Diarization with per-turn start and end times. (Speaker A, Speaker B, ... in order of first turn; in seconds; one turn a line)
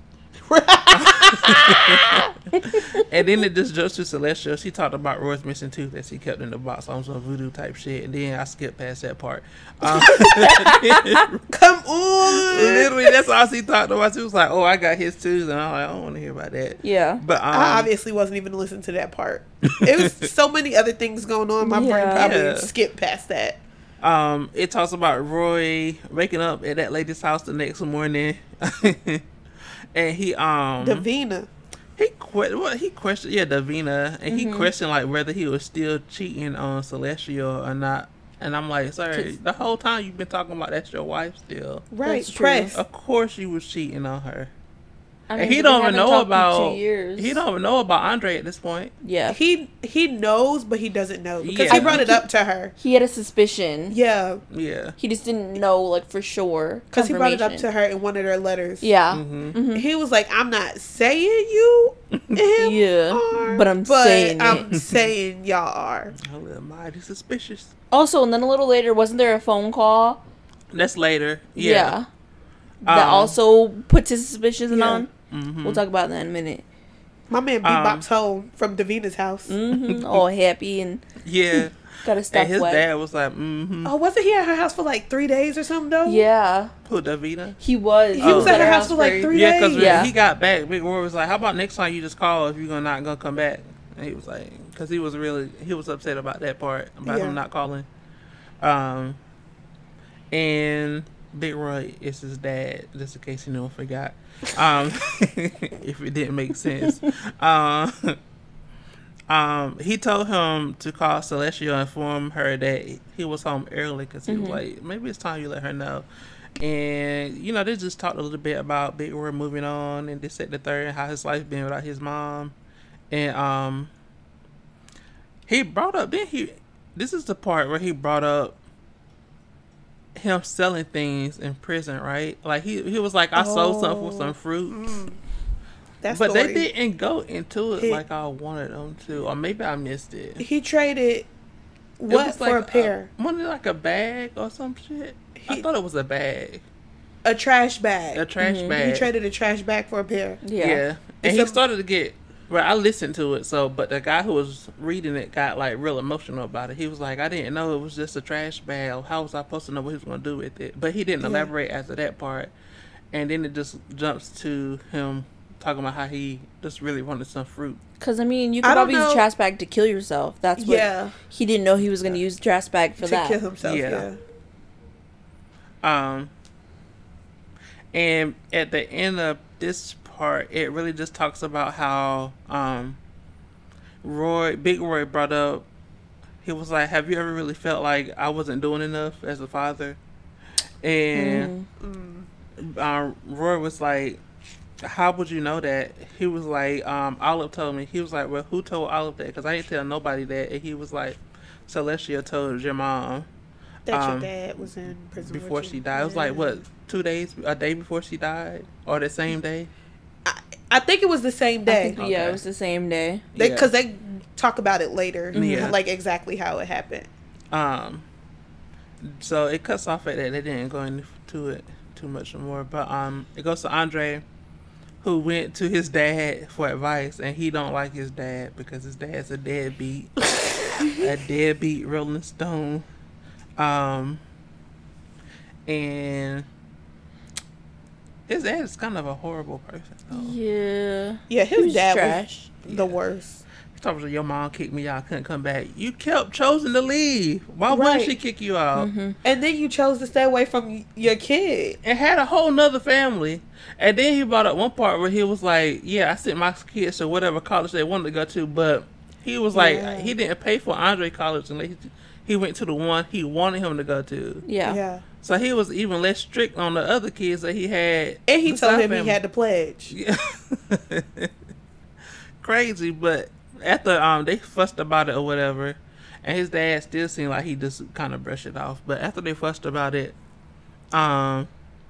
Speaker A: 0.5-2.3
Speaker B: 0.9-11.4
Speaker A: 9.8-10.7
Speaker C: 10.5-11.2
Speaker A: 11.5-13.2
Speaker B: 12.3-17.9
Speaker C: 16.8-17.2
Speaker A: 17.5-23.6
Speaker B: 19.7-20.3
Speaker C: 21.6-22.3
Speaker B: 22.2-22.7
Speaker B: 24.0-29.2
Speaker B: 29.9-31.1
Speaker A: 30.8-31.5
Speaker B: 32.0-41.9
Speaker C: 34.3-34.7
Speaker A: 41.9-42.8
Speaker C: 42.0-42.7
Speaker B: 42.7-44.5
Speaker C: 45.3-47.4
Speaker B: 45.4-48.9
Speaker C: 49.0-49.4
Speaker A: 49.3-52.7
Speaker B: 51.4-52.1
Speaker C: 51.7-52.2
Speaker C: 52.8-54.0
Speaker A: 53.9-54.4
Speaker B: 54.5-55.0
Speaker C: 55.0-57.7
Speaker A: 56.9-58.9
Speaker C: 58.8-59.9
Speaker B: 59.1-59.6
Speaker A: 59.7-66.2
Speaker B: 62.1-62.5
Speaker C: 62.6-64.7
Speaker B: 64.5-65.1
Speaker B: 66.2-67.7
Speaker C: 67.9-70.2
Speaker B: 70.7-72.0
Speaker C: 71.6-72.1
Speaker B: 72.8-73.4
Speaker C: 72.9-75.1
Speaker A: 74.7-75.1
Speaker B: 75.3-75.8
Speaker C: 75.6-76.6
Speaker A: 77.3-79.5
Speaker B: 77.6-78.1
Speaker C: 79.5-81.0
Speaker B: 79.8-80.2
Speaker B: 81.2-83.9
Speaker C: 81.5-82.9
Speaker A: 83.8-86.3
Speaker C: 86.1-86.7
Speaker B: 86.8-87.6
Speaker C: 87.6-90.1
Speaker A: 88.2-90.1
Speaker B: 88.2-97.9
Speaker A: 97.1-97.4
Speaker B: 98.6-99.2
Speaker B: 100.3-108.2
Speaker B: 109.3-116.1
Speaker C: 114.3-114.6
Speaker B: 116.6-122.5
Speaker B: 123.1-123.9
Speaker B: 125.5-128.6
Speaker B: 130.2-135.0
Speaker A: 133.3-135.2
Speaker A: 136.0-136.7
Speaker B: 136.1-140.4
Speaker A: 137.8-138.0
Speaker A: 140.4-141.3
Speaker A: 142.0-143.1
Speaker B: 142.1-146.6
Speaker A: 145.4-145.7
Speaker A: 147.2-148.2
Speaker B: 148.1-149.1
Speaker C: 148.4-148.7
Speaker A: 148.8-150.4
Speaker C: 150.4-150.8
Speaker B: 150.6-162.5
Speaker A: 151.2-151.6
Speaker A: 161.2-161.5
Speaker B: 163.1-167.8
Speaker C: 168.0-173.4
Speaker A: 168.6-169.2
Speaker A: 170.6-171.2
Speaker A: 173.0-174.2
Speaker B: 173.6-174.1
Speaker B: 175.8-176.3
Speaker B: 177.9-183.0
Speaker B: 184.0-185.7
Speaker B: 186.4-190.0
Speaker B: 190.8-191.5
Speaker C: 191.2-191.7
Speaker A: 191.8-192.3
Speaker B: 192.6-194.2
Speaker B: 194.8-203.3
Speaker A: 203.9-206.6
Speaker B: 203.9-204.3
Speaker B: 205.2-209.7
Speaker A: 210.2-212.0
Speaker C: 211.7-213.2
Speaker B: 211.9-212.4
Speaker B: 213.3-213.7
Speaker A: 213.4-217.1
Speaker B: 215.3-215.8
Speaker C: 215.3-215.7
Speaker B: 217.5-218.1
Speaker B: 219.0-224.2
Speaker B: 225.0-230.2
Speaker B: 230.8-232.9
Speaker B: 233.6-234.2
Speaker B: 235.7-236.5
Speaker B: 238.3-240.4
Speaker C: 240.1-242.5
Speaker A: 241.3-243.4
Speaker B: 242.7-243.0
Speaker B: 243.7-248.9
Speaker A: 247.7-248.2
Speaker C: 248.8-249.2
Speaker A: 249.2-251.8
Speaker B: 251.8-264.4
Speaker A: 259.5-260.1
Speaker C: 264.5-264.8
Speaker A: 264.6-265.0
Speaker B: 265.2-269.2
Speaker A: 268.3-269.9
Speaker B: 269.9-271.3
Speaker B: 272.4-280.1
Speaker B: 280.9-281.5